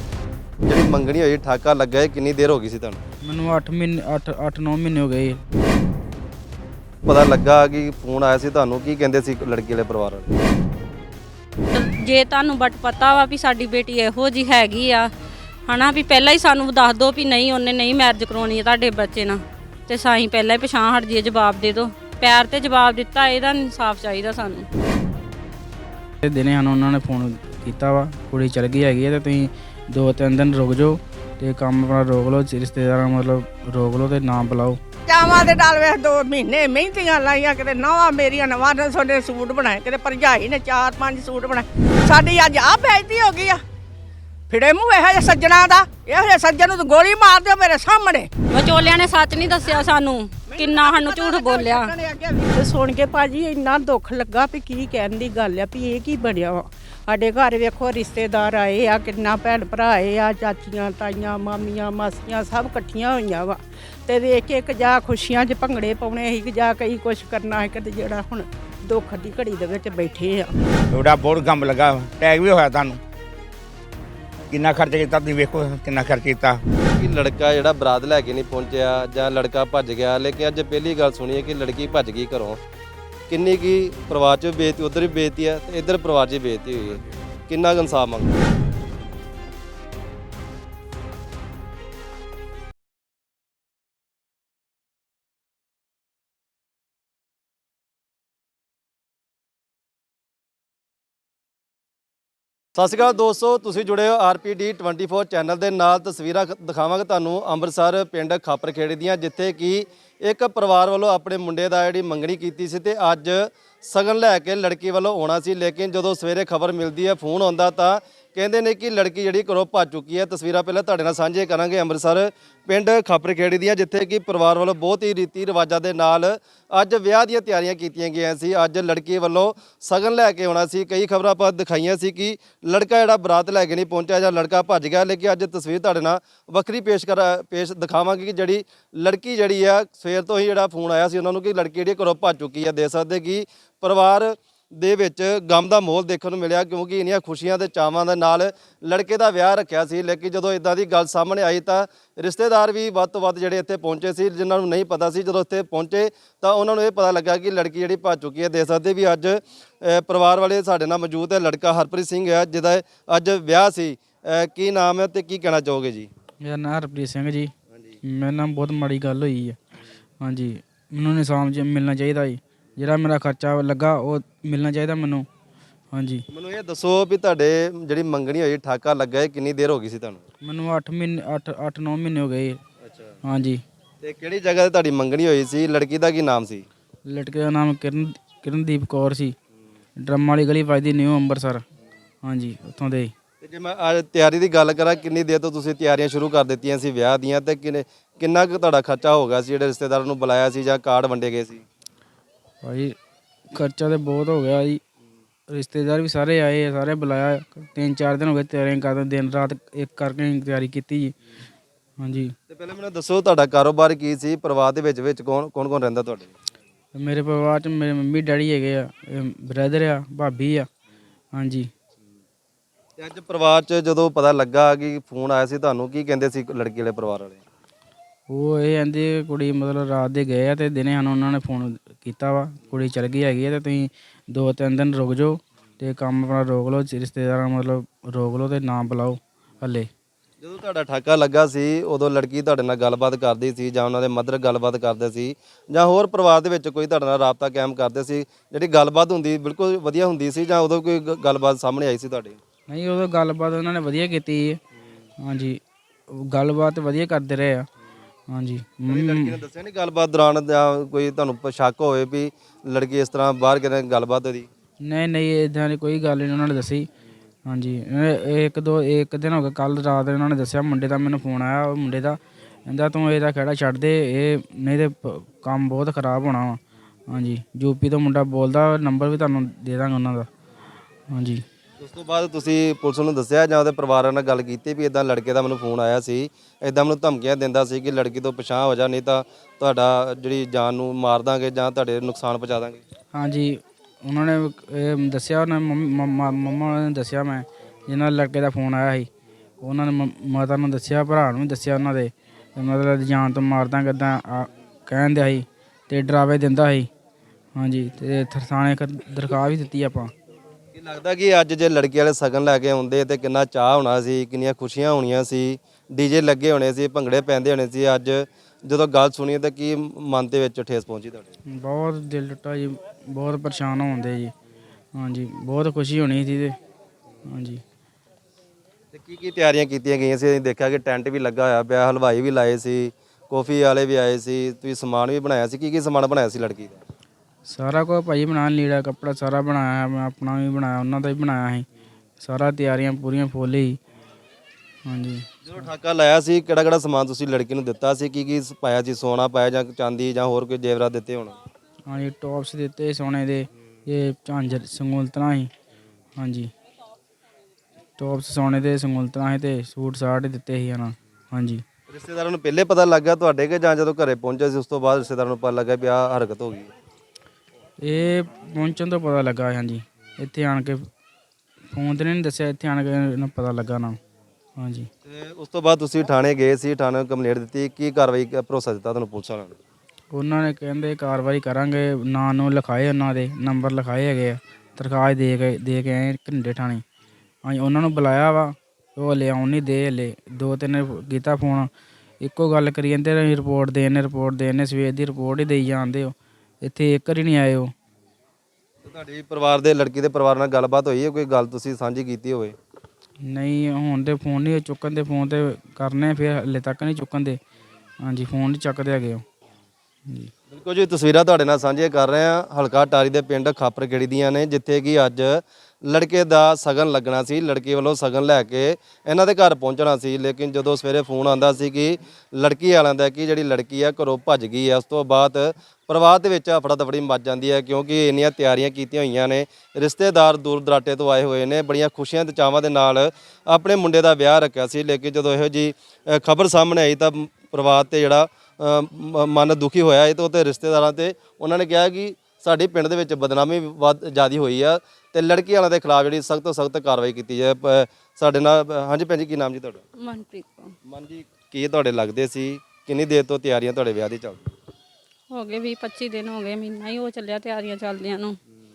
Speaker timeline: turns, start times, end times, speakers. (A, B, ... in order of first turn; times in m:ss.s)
0:00.6-0:03.0 A
0:03.2-0:05.4 B
0:07.0-0:10.3 A
0:11.7-0:15.1 C
0:15.6-0:24.7 C
0:26.2-0:34.8 B
0:35.1-0:43.6 D
0:44.5-0:48.3 D
0:48.5-0:51.9 C
0:50.5-0:52.5 D
0:52.5-1:10.5 E
1:10.9-1:13.0 F
1:14.5-1:16.6 F
1:16.8-1:22.6 A
1:23.3-1:28.4 A
1:42.8-2:46.1 A
2:46.4-2:47.5 B
2:47.7-2:48.0 A
2:48.0-2:49.6 B
2:50.2-2:55.3 B
2:55.9-2:56.2 B
2:56.3-3:00.2 A
3:00.4-3:02.6 B
3:02.8-3:03.1 A
3:03.2-3:03.6 B
3:04.0-3:06.7 A
3:07.1-3:09.3 B
3:10.0-3:11.6 B
3:12.2-3:13.1 B
3:13.4-3:21.6 A
3:22.6-3:23.0 B
3:23.5-3:24.8 B
3:25.5-3:31.1 B
3:32.0-3:32.3 B
3:32.5-3:36.3 A
3:36.9-3:40.7 B
3:41.3-3:41.7 B
3:43.0-3:47.4 A
3:48.3-3:59.9 B
4:00.4-4:12.4 A
4:12.7-4:14.6 B
4:15.2-4:15.6 B
4:16.1-4:17.6 B
4:18.3-4:19.4 B
4:18.9-4:24.5 A
4:24.8-4:26.9 B
4:27.5-4:36.6 B
4:37.1-4:40.3 B
4:41.1-4:41.4 B
4:41.8-4:52.8 A
4:53.1-4:59.1 B
4:59.6-5:06.9 B
5:07.6-5:10.1 B
5:10.7-5:21.3 A
5:21.5-5:24.3 B
5:25.0-5:26.6 B
5:27.3-5:27.6 B
5:28.9-5:36.8 A
5:37.4-5:41.7 B
5:42.2-5:43.8 B
5:44.8-5:45.2 B
5:45.4-5:51.4 A
5:51.9-5:55.5 B
5:56.2-5:56.5 B
5:58.0-6:01.6 B
6:01.9-6:06.7 A
6:07.8-6:10.8 B
6:11.7-6:14.0 B
6:14.6-6:14.9 B
6:15.0-6:19.6 A
6:20.1-6:26.8 B
6:27.4-6:31.7 B
6:32.2-6:37.7 B
6:38.8-6:42.6 A
6:43.2-6:47.4 B
6:48.0-6:49.2 B
6:50.5-7:29.8 A
7:30.0-7:30.7 C
7:30.8-7:34.5 A
7:35.3-7:38.4 C